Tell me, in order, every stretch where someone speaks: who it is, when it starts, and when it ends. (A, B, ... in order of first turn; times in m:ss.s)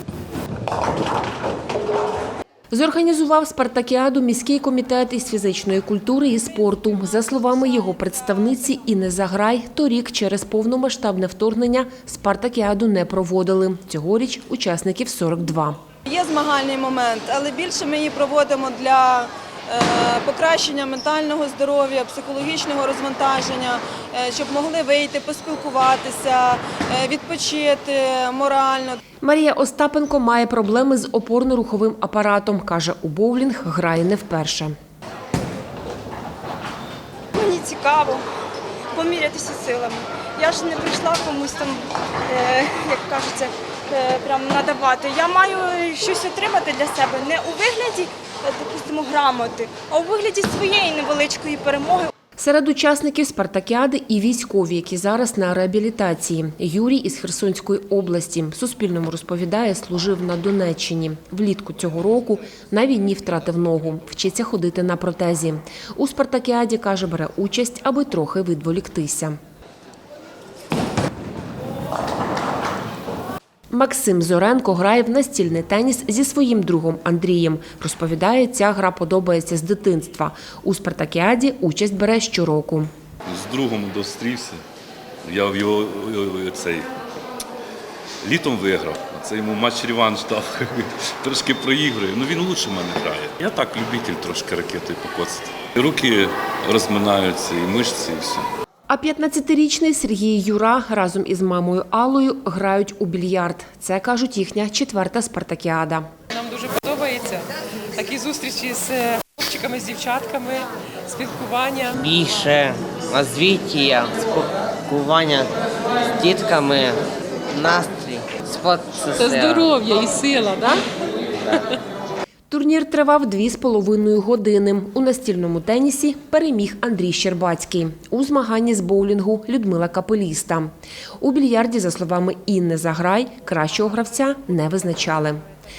0:02.7-0:15.8 A
0:16.1-0:29.0 B
0:29.2-0:34.7 A
0:37.3-0:38.2 C
0:38.9-0:52.1 C
0:52.4-1:09.4 A
1:13.7-1:22.9 A
1:23.2-1:24.6 D
1:25.2-1:26.9 D
1:28.2-1:38.5 D
1:38.9-1:46.1 A
1:46.3-1:52.0 E
1:51.9-1:59.7 F
1:59.2-2:00.8 E
2:02.5-2:15.4 A